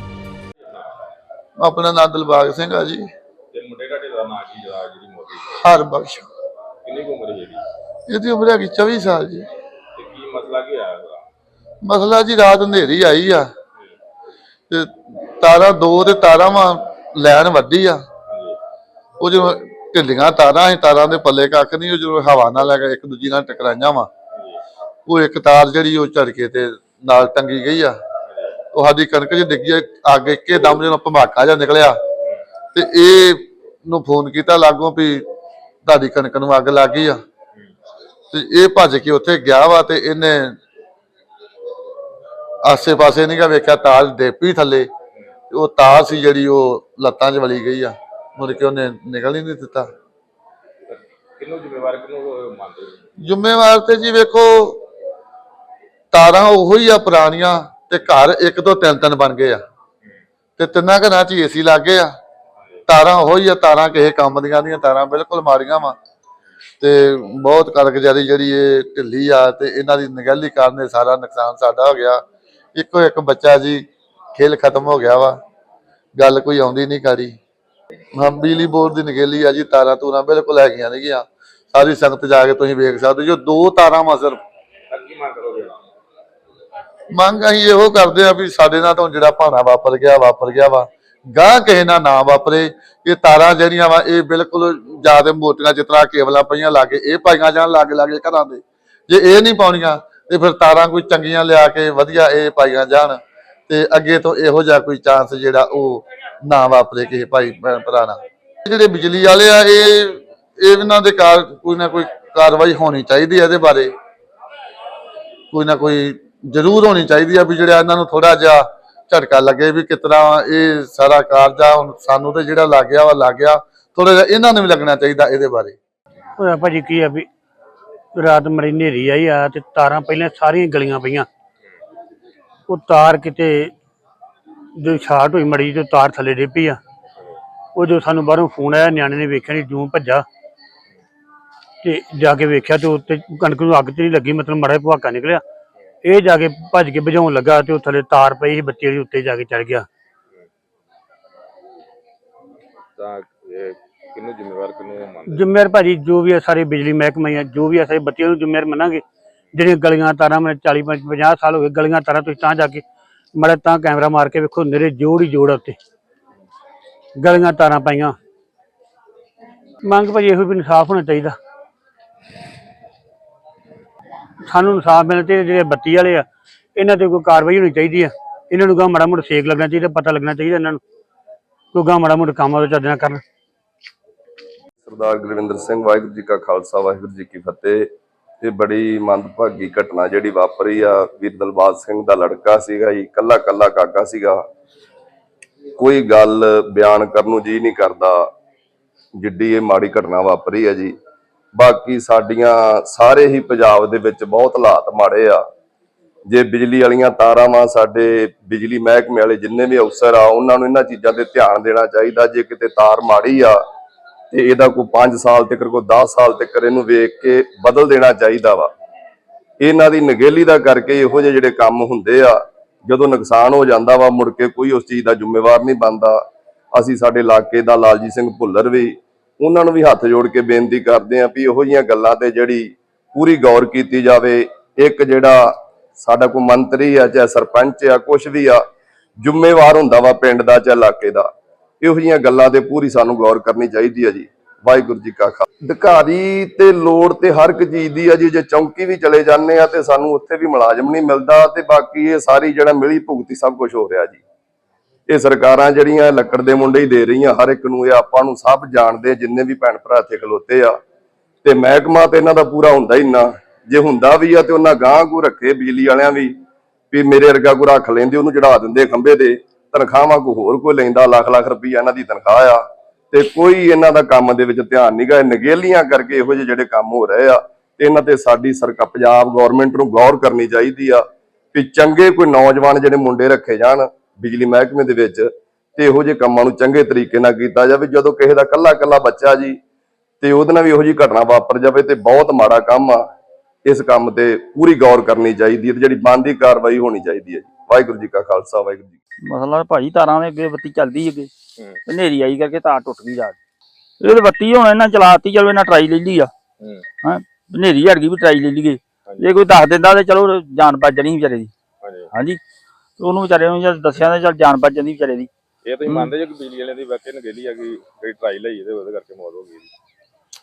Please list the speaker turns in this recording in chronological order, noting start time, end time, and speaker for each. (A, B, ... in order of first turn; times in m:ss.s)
0:01.6-0:03.0 A
0:03.5-0:05.4 B
0:05.6-0:06.3 A
0:06.8-0:07.6 B
0:08.1-0:09.4 A
0:10.0-0:11.2 B
0:11.8-0:13.5 A
0:14.7-0:18.0 A
0:18.3-0:18.6 B
0:19.2-0:24.1 A
0:24.3-0:24.6 B
0:25.1-0:27.9 A
0:28.3-0:28.6 B
0:28.7-0:32.0 A
0:32.7-0:35.2 A
0:35.8-0:37.2 A
0:38.3-0:40.6 A
0:42.6-0:44.9 A
0:45.5-0:49.9 A
0:50.9-0:53.0 B
0:53.2-0:54.8 A
0:56.1-0:59.6 A
1:00.6-1:02.1 A
1:02.9-1:06.0 A
1:06.8-1:12.2 A
1:12.7-1:13.8 A
1:14.4-1:15.4 A
1:16.2-1:17.4 A
1:18.2-1:24.4 A
1:24.9-1:25.8 B
1:27.1-1:53.9 A
1:55.5-2:05.8 A
2:06.4-2:07.3 C
2:08.2-2:11.3 C
2:12.7-2:13.7 C
2:14.8-2:16.8 C
2:17.8-2:20.2 C
2:21.8-2:25.4 C
2:26.0-2:29.8 C
2:33.0-2:35.4 B
2:35.3-2:39.0 C
2:39.5-2:42.8 C
2:43.4-2:45.8 C
2:47.2-2:48.1 C
2:49.8-2:51.4 C
2:54.5-3:00.8 C
3:01.7-3:03.2 C
3:04.8-3:07.9 D
3:08.4-3:14.4 D
3:15.8-3:18.3 D
3:19.2-3:20.9 D
3:21.5-3:25.4 D
3:26.3-3:33.6 D
3:34.3-3:38.7 D
3:39.6-3:46.2 D
3:46.7-3:58.6 D
3:59.2-4:01.3 D
4:01.8-4:14.2 D
4:15.1-4:20.8 D
4:21.4-4:26.4 D
4:26.9-4:32.6 D
4:33.1-4:49.6 D
4:50.2-4:53.0 D
4:53.6-4:58.9 D
4:59.3-5:01.3 E
5:01.9-5:03.4 E
5:04.0-5:06.3 E
5:07.0-5:11.5 E
5:11.8-5:12.1 B
5:12.1-5:12.4 E
5:13.0-5:15.3 E
5:15.6-5:19.7 B